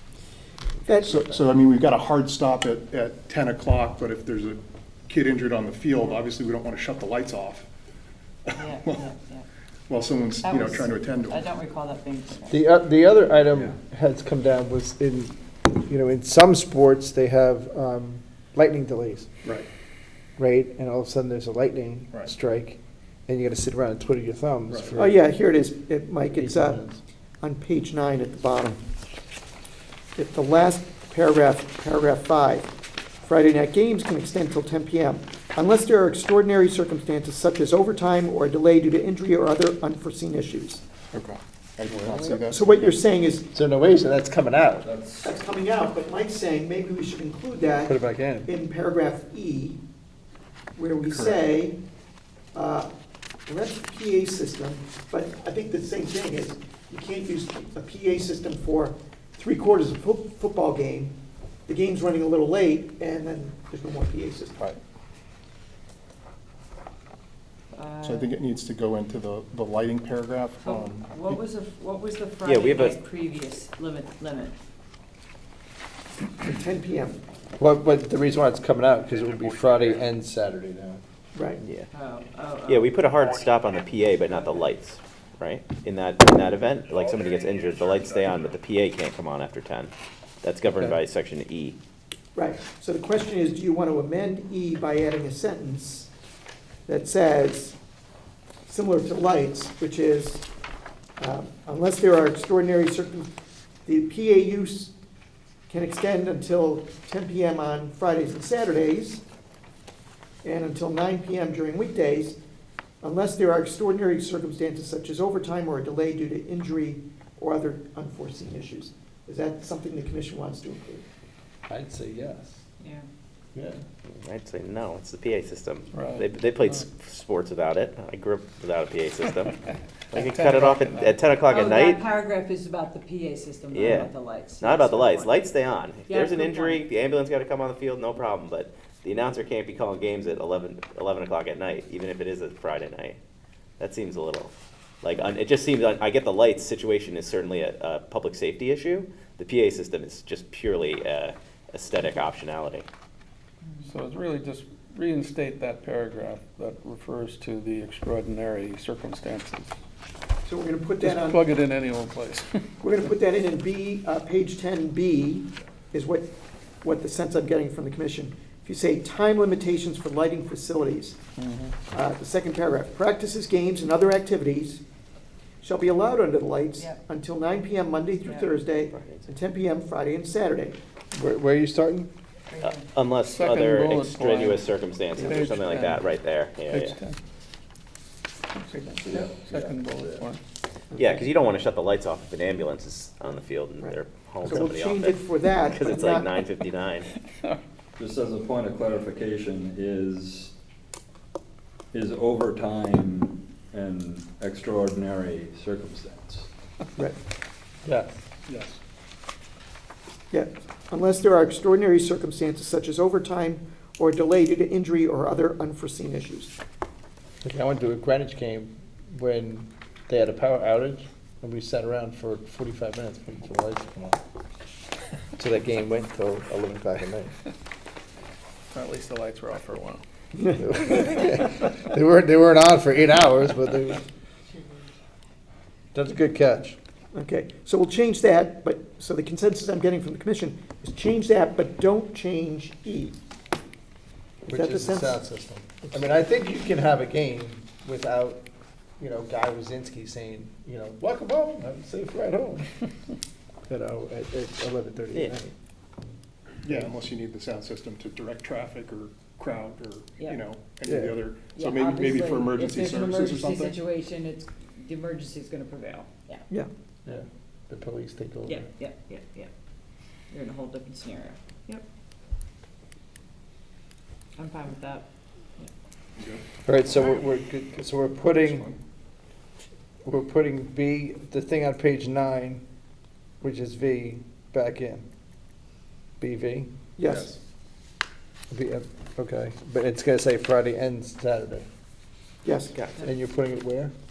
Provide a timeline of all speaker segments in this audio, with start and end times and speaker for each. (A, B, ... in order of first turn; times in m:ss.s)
0:00.8-0:01.2 A
0:01.0-0:07.7 B
0:08.5-0:09.0 B
0:08.6-0:09.4 C
0:09.9-0:11.5 B
0:10.4-0:12.6 C
0:12.5-0:19.3 D
0:20.4-0:25.2 D
0:24.7-0:25.0 B
0:25.0-0:26.8 A
0:26.3-0:27.0 D
0:27.4-0:28.8 A
0:30.2-0:32.7 A
0:33.2-0:40.8 A
0:41.1-0:42.9 B
0:41.9-0:42.4 D
0:42.5-0:43.5 A
0:43.5-0:44.9 D
0:44.8-0:45.4 E
0:45.2-0:49.8 A
0:47.8-0:48.5 D
0:50.8-0:51.8 A
0:51.0-0:51.4 B
0:52.5-0:52.9 A
0:53.5-1:04.6 A
1:07.7-1:08.3 C
1:08.0-1:11.4 B
1:10.6-1:14.5 C
1:12.4-1:13.0 F
1:16.4-1:17.2 A
1:17.6-1:21.0 D
1:21.3-1:21.6 A
1:21.6-1:21.9 F
1:21.9-1:22.9 C
1:22.7-1:29.9 F
1:30.4-1:31.8 F
1:32.3-1:36.1 A
1:36.9-1:37.8 A
1:38.7-1:40.4 A
1:41.2-1:43.3 A
1:43.8-1:44.9 A
1:45.7-1:49.2 A
1:50.4-1:52.4 A
1:53.0-2:01.0 A
2:01.7-2:02.6 D
2:02.8-2:03.0 C
2:03.5-2:03.8 D
2:04.1-2:09.6 F
2:05.9-2:06.8 G
2:10.1-2:12.0 F
2:10.1-2:11.2 G
2:11.5-2:15.3 C
2:13.7-2:23.2 F
2:16.1-2:16.8 C
2:23.8-2:32.8 F
2:33.8-2:39.7 G
2:40.4-2:41.4 A
2:41.0-2:42.6 G
2:42.8-2:51.2 A
2:51.4-2:51.7 G
2:51.9-2:54.8 A
2:55.6-3:00.8 A
2:56.8-2:57.0 C
2:58.2-2:58.6 C
2:58.9-2:59.3 F
3:01.1-3:02.1 D
3:02.5-3:02.9 C
3:02.6-3:07.0 F
3:03.2-3:06.1 G
3:06.7-3:07.2 G
3:08.5-3:10.4 G
3:09.0-3:10.2 E
3:10.9-3:17.1 F
3:13.8-3:16.4 A
3:18.0-3:20.5 E
3:21.9-3:26.5 E
3:27.8-3:28.2 D
3:28.5-3:28.8 B
3:30.3-3:36.5 A
3:37.4-3:44.2 D
3:45.4-3:47.3 D
3:48.7-3:50.0 G
3:50.6-3:54.0 D
3:55.9-3:56.8 D
3:57.1-4:03.2 A
4:04.4-4:08.4 D
4:04.5-4:05.2 A
4:09.0-4:12.8 D
4:13.7-4:15.5 D
4:16.6-4:23.8 B
4:20.8-4:21.2 D
4:21.5-4:26.4 C
4:27.0-4:28.7 D
4:28.5-4:29.5 C
4:30.3-4:31.8 C
4:34.4-4:35.0 C
4:36.2-4:36.4 B
4:36.6-4:38.7 D
4:38.3-4:38.8 B
4:40.0-4:42.6 D
4:43.4-4:45.0 D
4:46.2-4:46.7 D
4:47.0-4:47.4 A
4:48.5-4:51.7 D
4:52.4-4:52.8 A
4:52.7-4:53.0 F
4:53.0-4:53.9 D